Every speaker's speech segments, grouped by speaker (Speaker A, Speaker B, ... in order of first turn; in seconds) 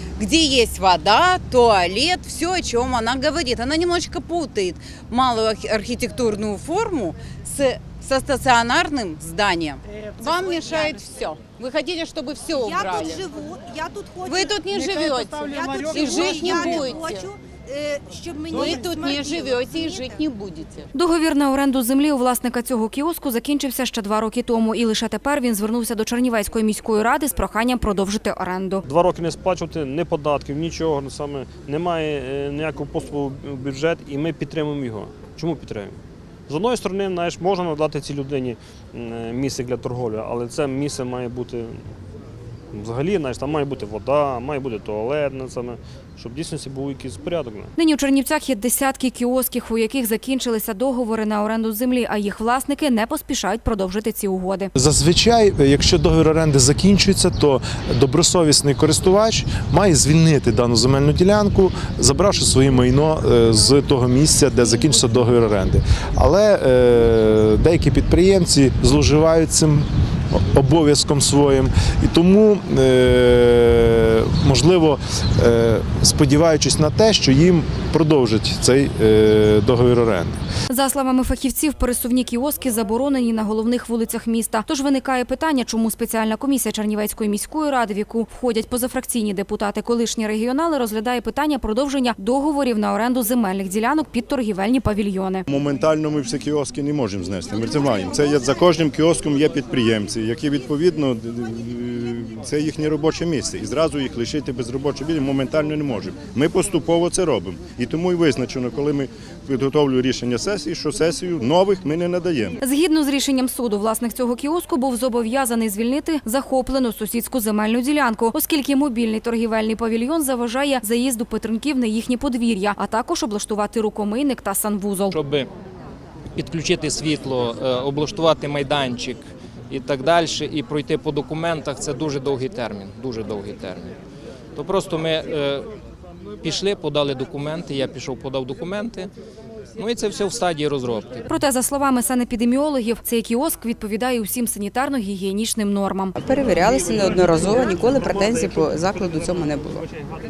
Speaker A: 0.2-13.1, 14.3-17.2, 18.6-20.7
Speaker B: 10.4-11.1, 12.6-20.2
Speaker C: 20.9-28.8, 47.8-54.7, 80.7-95.4, 112.6-125.2, 141.3-146.2
Speaker D: 28.9-41.8, 42.7-47.7
Speaker E: 54.7-80.4
Speaker F: 95.5-112.6
Speaker G: 125.1-125.5, 126.3-133.9, 134.5-135.7, 136.4-139.1, 139.8-141.2
Speaker H: 146.2-149.9